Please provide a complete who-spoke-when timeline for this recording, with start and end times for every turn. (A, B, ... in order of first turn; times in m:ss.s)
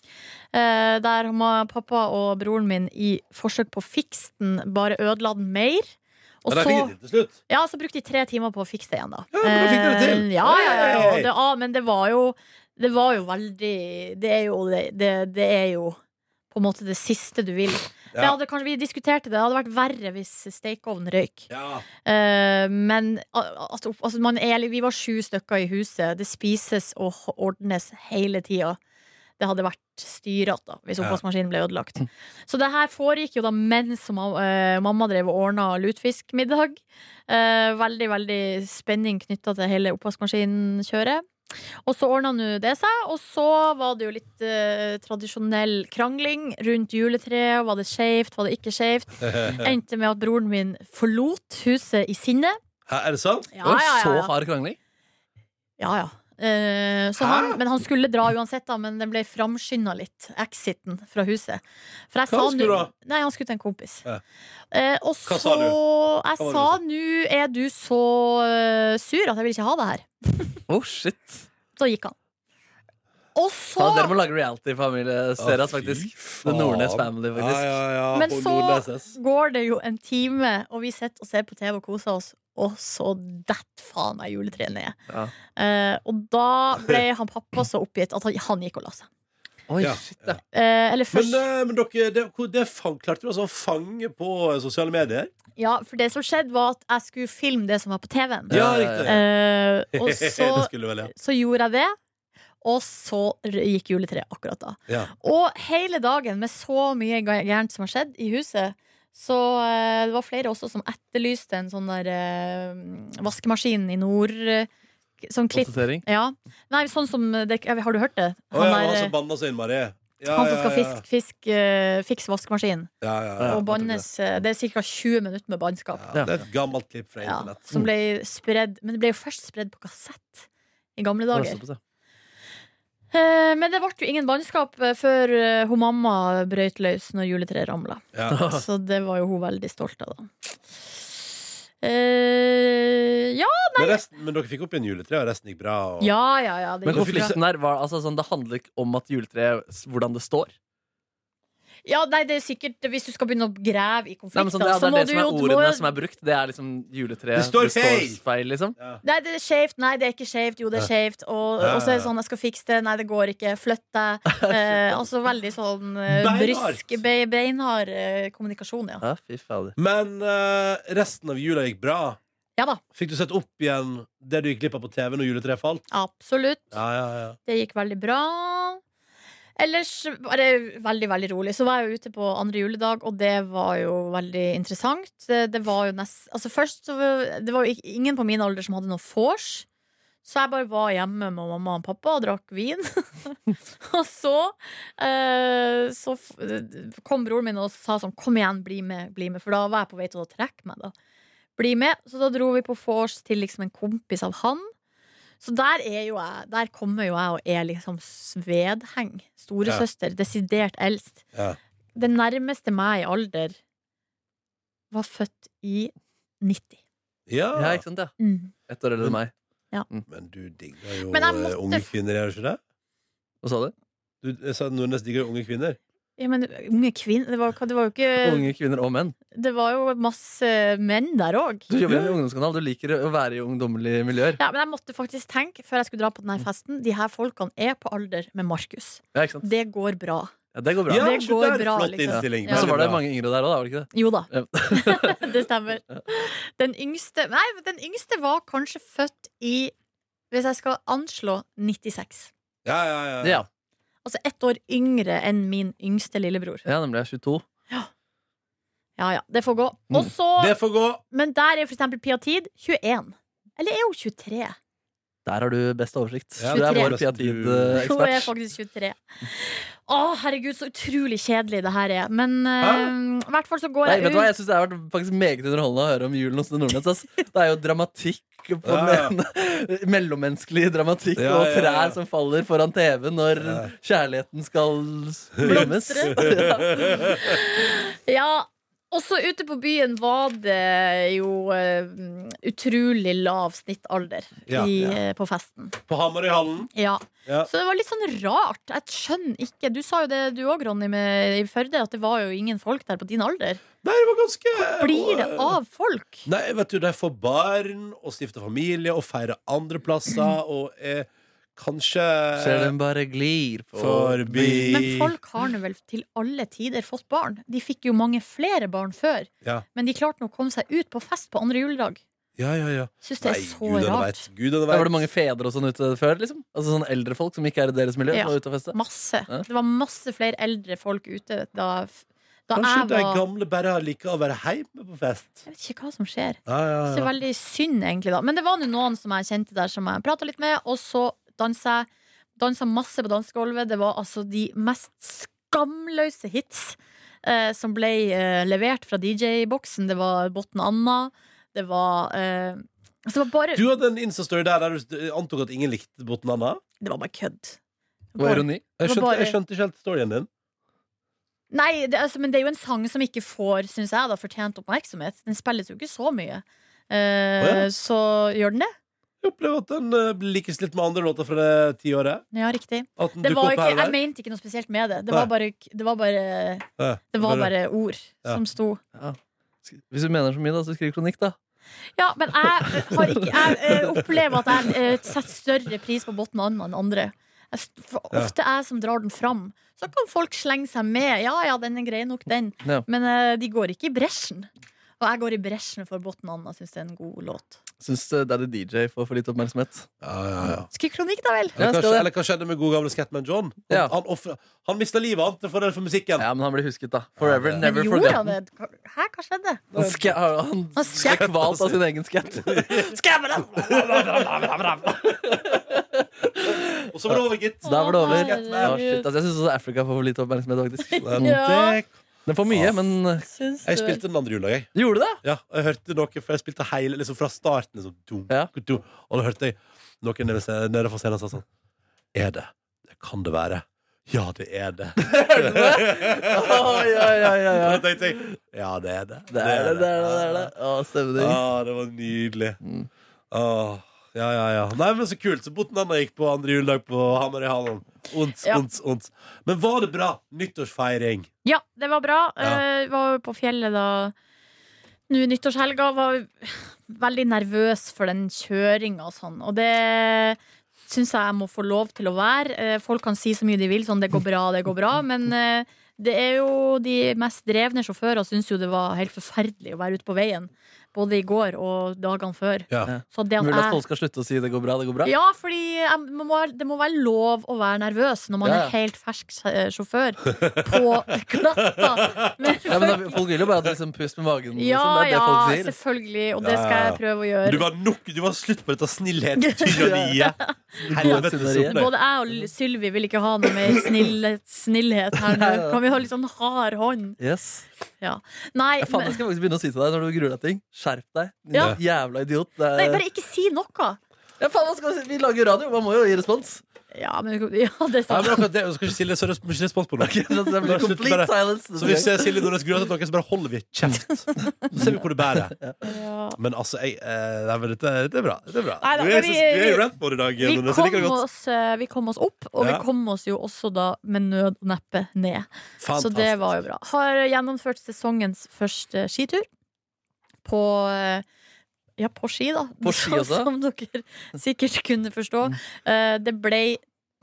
0:00.5-0:05.9 A
0:06.4-0:06.9 A
0:06.5-0:07.3 B
0:07.5-0:16.0 A
0:09.3-0:11.3 B
0:16.5-0:21.5 A
0:21.5-0:21.8 B
0:22.0-0:28.8 A
0:29.4-0:41.3 A
0:41.8-0:52.6 A
0:49.2-0:49.7 B
0:52.9-0:53.5 B
0:53.5-0:54.3 A
0:53.6-0:54.8 C
0:55.8-1:04.0 A
0:57.2-0:57.6 B
1:02.3-1:02.9 B
1:04.7-1:10.6 A
1:05.3-1:05.8 B
1:06.4-1:06.8 B
1:10.7-1:11.5 C
1:11.8-1:12.2 A
1:13.4-1:14.2 A
1:13.8-1:17.8 C
1:15.4-1:19.2 B
1:18.1-1:25.0 A
1:25.6-1:29.1 A
1:29.7-1:30.4 C
1:29.8-1:30.4 B
1:30.5-1:31.4 A
1:31.1-1:35.3 B
1:35.6-1:42.0 A
1:38.5-1:39.2 C
1:38.5-1:39.2 B
1:39.9-1:41.1 B
1:42.6-1:54.7 A
1:55.2-1:59.1 A
1:55.5-1:56.0 C
1:58.5-2:01.0 B
2:00.3-2:02.9 A
2:03.0-2:03.6 B
2:03.4-2:04.0 C
2:03.4-2:06.1 A
2:06.0-2:07.7 B
2:07.2-2:11.6 A
2:11.3-2:11.8 C
2:13.1-2:20.3 A
2:18.3-2:18.6 C
2:20.9-2:21.2 A
2:21.8-2:24.0 A
2:23.8-2:26.1 B
2:26.0-2:27.4 A
2:26.9-2:30.5 C
2:26.9-2:27.4 B
2:31.8-2:35.9 A
2:34.3-2:38.8 C
2:37.3-2:38.2 B
2:39.0-2:49.0 A
2:41.6-2:42.1 B
2:44.3-2:44.9 C
2:46.1-2:47.0 B
2:49.0-2:49.8 C
2:49.8-2:52.2 B
2:52.6-2:52.8 A
2:52.9-2:55.8 B
2:55.9-2:56.7 A
2:56.7-2:57.4 B
2:57.5-2:58.8 A
2:59.6-3:09.7 A
3:10.2-3:20.9 A
3:21.6-3:24.7 A
3:25.4-3:31.2 A
3:32.0-3:33.6 A
3:34.9-3:36.8 A
3:37.3-3:37.8 B
3:37.6-3:39.3 C
3:38.2-3:38.5 A
3:40.1-3:42.6 B
3:41.1-3:41.9 A
3:43.4-3:43.7 C
3:44.2-3:45.8 B
3:46.2-3:48.5 A
3:48.2-3:49.2 C
3:49.3-3:51.7 A
3:51.7-3:54.4 C
3:51.9-3:52.2 B
3:54.4-4:00.4 A
3:59.2-3:59.5 C
4:00.5-4:01.1 C
4:00.9-4:03.0 B
4:00.9-4:02.7 A
4:02.1-4:05.4 C
4:03.9-4:09.7 A
4:10.3-4:12.3 A
4:12.6-4:13.4 B
4:13.2-4:13.5 C
4:14.0-4:16.6 A
4:16.6-4:17.4 C
4:19.0-4:20.6 A
4:20.4-4:21.0 B
4:21.1-4:24.6 A
4:25.3-4:28.3 C
4:26.4-4:27.8 B
4:26.5-4:27.0 A
4:27.7-4:34.3 A
4:32.6-4:32.9 B
4:33.8-4:47.2 C
4:38.6-4:39.1 B
4:41.2-4:42.0 B
4:43.4-4:43.7 B
4:45.4-4:55.8 A
4:45.4-4:47.2 B
4:54.5-4:55.0 B
4:55.9-4:56.7 B
4:56.7-5:03.6 A
5:03.8-5:05.6 B
5:04.6-5:06.3 A
5:06.3-5:12.7 B
5:12.4-5:14.8 C
5:13.8-5:15.1 B
5:14.6-5:22.0 A
5:22.4-5:25.1 B
5:23.0-5:24.3 A
5:24.7-5:28.8 C
5:28.1-5:33.2 A
5:32.5-5:35.4 B
5:35.5-5:53.7 A
5:36.5-5:37.1 B
5:53.5-5:56.6 B
5:56.8-5:57.6 A
5:58.2-5:59.4 A
5:58.2-5:58.7 C
5:58.8-6:00.3 B
6:01.5-6:08.7 A
6:07.4-6:07.7 B
6:09.2-6:12.2 B
6:12.3-6:18.8 A
6:13.0-6:14.0 B
6:16.8-6:17.5 B
6:19.0-6:21.4 C
6:22.0-6:37.6 A
6:37.8-6:39.9 C
6:40.0-6:40.7 B
6:40.7-6:41.6 A
6:41.6-6:46.3 B
6:41.6-6:42.1 C
6:46.2-6:48.3 C
6:47.2-6:47.7 B
6:47.6-6:49.6 A
6:49.7-6:50.2 B
6:49.7-7:01.4 C
6:50.8-6:51.3 A
6:51.0-6:51.8 B
6:52.4-6:55.5 B
6:56.9-6:58.8 B
6:57.6-6:59.1 A
7:00.9-7:01.8 A
7:01.0-7:01.9 B
7:02.3-7:03.3 C
7:02.5-7:02.8 B
7:03.3-7:04.0 A
7:03.6-7:04.7 B
7:04.8-7:05.2 C
7:05.2-7:11.5 B
7:12.1-7:20.5 B
7:15.0-7:18.2 C
7:19.3-7:21.4 C
7:21.2-7:22.6 B
7:22.6-7:22.9 C
7:23.3-7:31.3 B
7:31.4-7:34.1 A
7:35.1-7:53.8 A
7:52.9-7:55.1 C
7:55.0-8:03.2 A
7:58.4-7:58.7 C
8:01.6-8:02.3 B
8:02.7-8:05.8 C
8:04.6-8:07.7 A
8:06.4-8:11.9 B
8:09.4-8:17.2 A
8:09.7-8:10.2 C
8:10.8-8:11.9 C
8:15.3-8:15.8 C
8:17.2-8:17.7 C
8:18.0-8:19.2 A
8:18.8-8:23.0 C
8:21.5-8:21.8 A
8:22.8-8:24.0 A
8:24.4-8:26.6 C
8:26.9-8:28.5 A
8:28.1-8:35.6 B
8:30.0-8:32.5 C
8:33.9-8:35.8 C
8:35.8-8:36.4 A
8:36.4-8:41.2 B
8:38.8-8:39.9 A
8:40.4-8:49.5 A
8:42.6-8:42.8 B
8:45.8-8:46.6 B
8:50.4-8:51.2 A
8:52.0-8:56.8 A
8:52.8-8:53.5 C